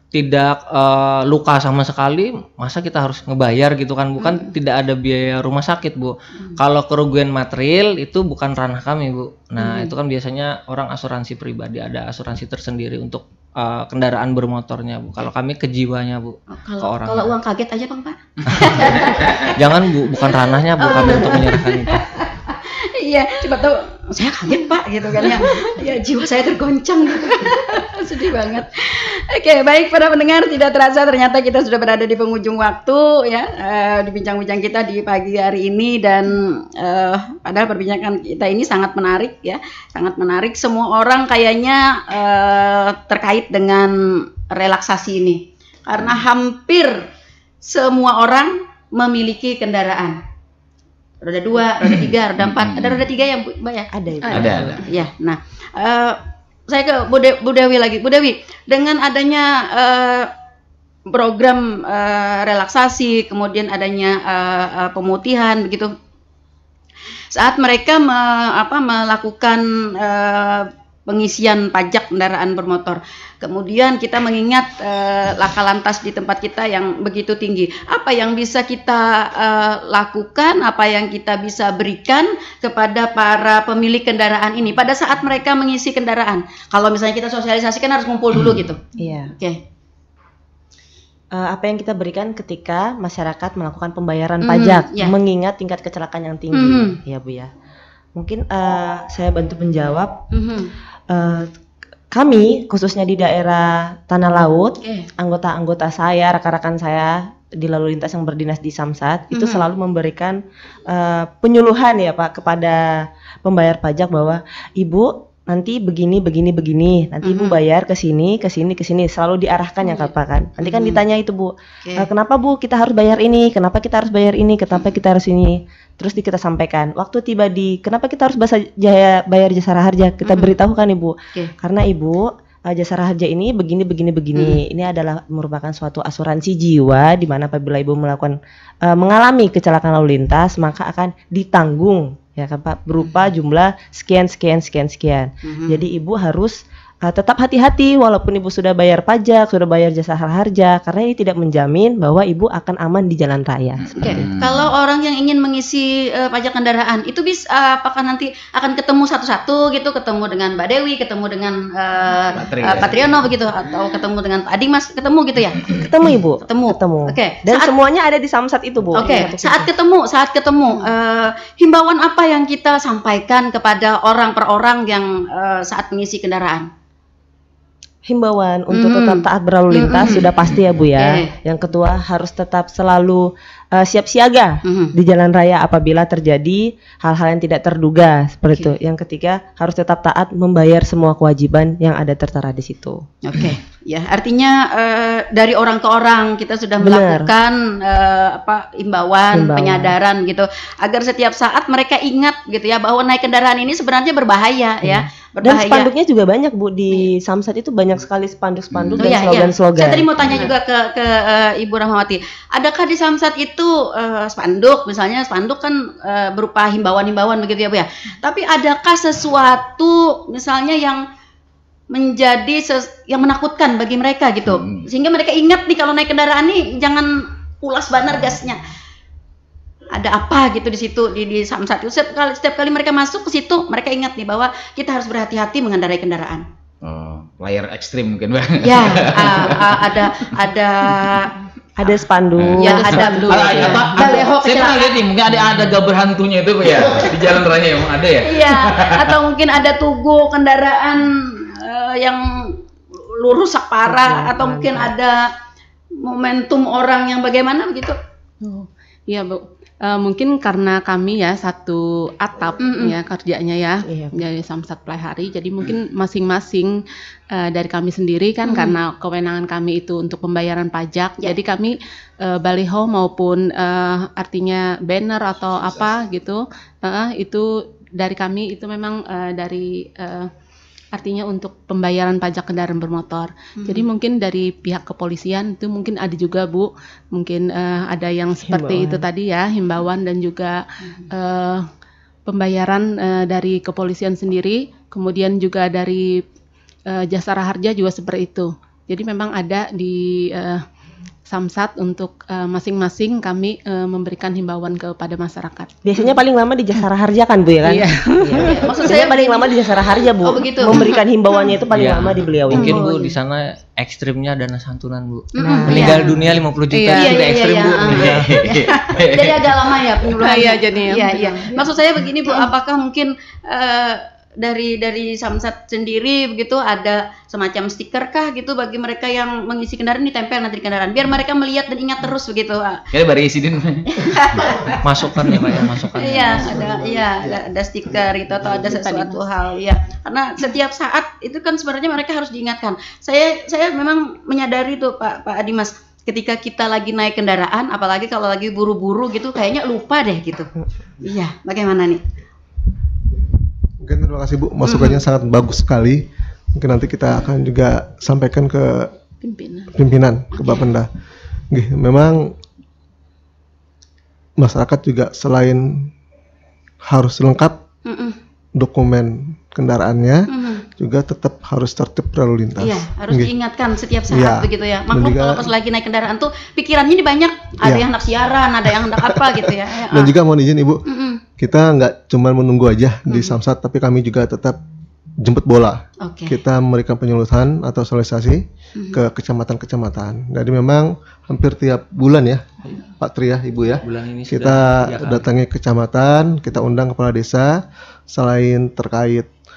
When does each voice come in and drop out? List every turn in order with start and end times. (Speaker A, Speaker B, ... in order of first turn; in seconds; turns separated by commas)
Speaker A: 0.1-17.3, Speaker B: 4.2-4.5, Speaker B: 9.6-9.9, Speaker B: 16.5-19.6, Speaker A: 18.5-22.1, Speaker C: 18.6-19.5, Speaker B: 20.2-43.9, Speaker B: 44.5-46.9, Speaker C: 46.0-46.2, Speaker B: 47.6-50.2, Speaker B: 51.2-60.3, Speaker C: 51.8-53.1, Speaker D: 53.9-54.8, Speaker E: 54.2-54.5, Speaker C: 54.3-54.8, Speaker B: 61.1-65.9, Speaker B: 67.3-89.6, Speaker D: 89.0-89.3, Speaker D: 91.3-97.5, Speaker B: 94.4-95.2, Speaker B: 96.5-97.0, Speaker D: 98.2-100.2, Speaker B: 100.3-100.7, Speaker D: 101.1-101.5, Speaker D: 102.1-154.3, Speaker B: 104.8-105.1, Speaker B: 109.3-109.7, Speaker B: 117.2-117.6, Speaker B: 119.9-121.0, Speaker B: 130.3-130.6, Speaker B: 134.3-134.6, Speaker B: 145.4-145.8, Speaker C: 153.8-154.7, Speaker B: 154.0-165.9, Speaker C: 162.3-163.2, Speaker C: 165.6-165.9, Speaker D: 165.8-169.7, Speaker B: 166.4-167.7, Speaker B: 169.0-176.7, Speaker D: 178.1-193.1, Speaker B: 178.7-180.3, Speaker B: 181.0-181.3, Speaker B: 184.6-184.9, Speaker B: 188.5-188.8, Speaker B: 193.2-205.9, Speaker D: 196.8-197.3, Speaker D: 199.3-200.0, Speaker D: 204.8-210.3, Speaker C: 208.7-209.1, Speaker B: 209.0-221.0, Speaker C: 210.2-210.5, Speaker B: 221.9-228.7, Speaker C: 224.5-224.8, Speaker B: 229.9-236.4, Speaker C: 236.8-240.4, Speaker B: 238.6-241.3, Speaker D: 241.8-243.6, Speaker C: 242.4-249.2, Speaker B: 242.6-245.0, Speaker E: 242.6-244.2, Speaker B: 248.2-252.6, Speaker B: 253.2-255.3, Speaker D: 253.9-254.9, Speaker B: 256.0-258.0, Speaker E: 258.4-266.8, Speaker B: 262.6-262.9, Speaker D: 263.9-264.2, Speaker E: 267.3-280.3, Speaker B: 268.4-268.8, Speaker E: 280.9-291.6, Speaker B: 283.6-283.9, Speaker D: 288.4-289.1, Speaker E: 292.3-296.2, Speaker E: 296.9-300.6, Speaker E: 301.3-305.7, Speaker D: 305.9-312.9, Speaker E: 307.6-308.6, Speaker B: 308.4-310.9, Speaker A: 311.7-318.5, Speaker B: 312.6-313.1, Speaker B: 315.4-316.1, Speaker D: 315.4-316.2, Speaker E: 315.7-316.0, Speaker E: 316.7-317.2, Speaker B: 316.9-332.9, Speaker C: 317.8-319.8, Speaker E: 320.1-321.7, Speaker C: 332.9-334.5, Speaker B: 333.9-334.9, Speaker A: 334.8-336.5, Speaker B: 336.0-350.5, Speaker F: 336.1-338.7, Speaker E: 338.6-339.2, Speaker B: 351.0-352.0, Speaker F: 353.8-359.0, Speaker B: 354.6-355.0, Speaker E: 359.2-359.7, Speaker F: 359.7-360.9, Speaker B: 360.3-360.7, Speaker F: 361.5-362.4, Speaker F: 364.4-365.9, Speaker F: 366.8-367.6, Speaker B: 367.9-368.2, Speaker F: 368.6-373.3, Speaker B: 370.3-370.7, Speaker B: 372.6-380.1, Speaker F: 374.1-375.5, Speaker F: 377.6-377.9, Speaker F: 378.7-380.8, Speaker B: 380.9-381.2, Speaker F: 381.4-384.6, Speaker F: 385.2-392.4, Speaker B: 386.0-386.4, Speaker B: 388.8-389.0, Speaker F: 393.0-399.3, Speaker A: 393.8-395.3